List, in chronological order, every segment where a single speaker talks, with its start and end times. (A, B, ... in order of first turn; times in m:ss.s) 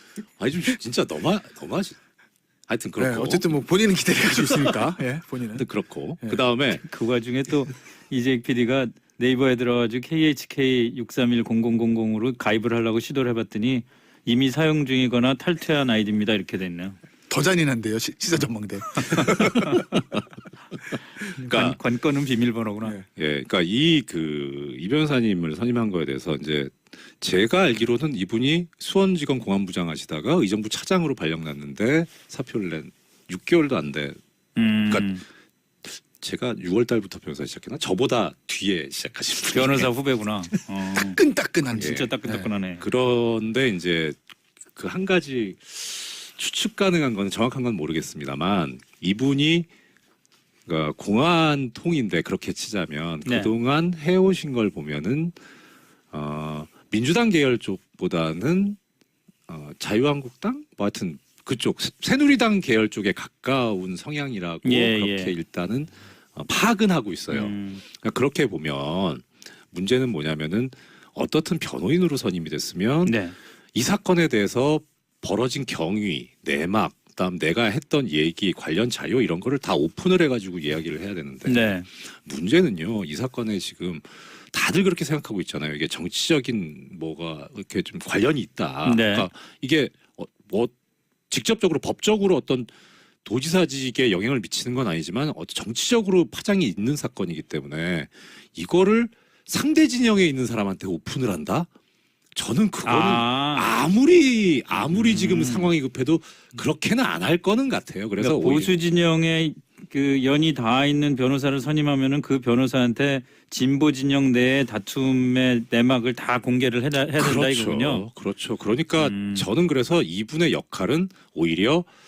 0:00.4-0:02.0 A
0:02.7-0:03.4 A
0:03.0-0:05.6 B
0:04.5-0:04.8 A
0:05.6-0:06.8 A
0:06.8-0:17.0 C
0:17.3-0:19.9 B
0:19.1-0:19.8 C
0:21.4-0:21.8 A
0:21.4-0:23.0 C
0:23.2-0:34.2 A
0:34.6-0:35.2 C
0:35.9-0:39.9 A
0:39.5-0:41.2 C
0:40.9-0:42.5 B
0:41.8-0:42.8 C
0:41.8-0:42.1 A
0:42.8-0:44.2 A
0:44.8-0:49.7 A
0:50.7-0:55.4 A
0:53.2-0:53.5 C
0:56.1-0:58.8 A
0:59.5-1:13.2 A
1:04.6-1:05.3 C
1:07.3-1:07.8 C
1:13.1-1:13.4 C
1:13.7-1:30.7 A
1:21.5-1:21.9 C
1:28.8-1:29.3 C
1:31.3-1:32.7 A
1:33.2-1:41.7 A
1:42.4-1:48.7 A
1:42.8-1:43.7 C
1:44.9-1:45.7 C
1:48.2-1:58.0 C
1:57.2-2:01.9 A
1:59.0-1:59.5 C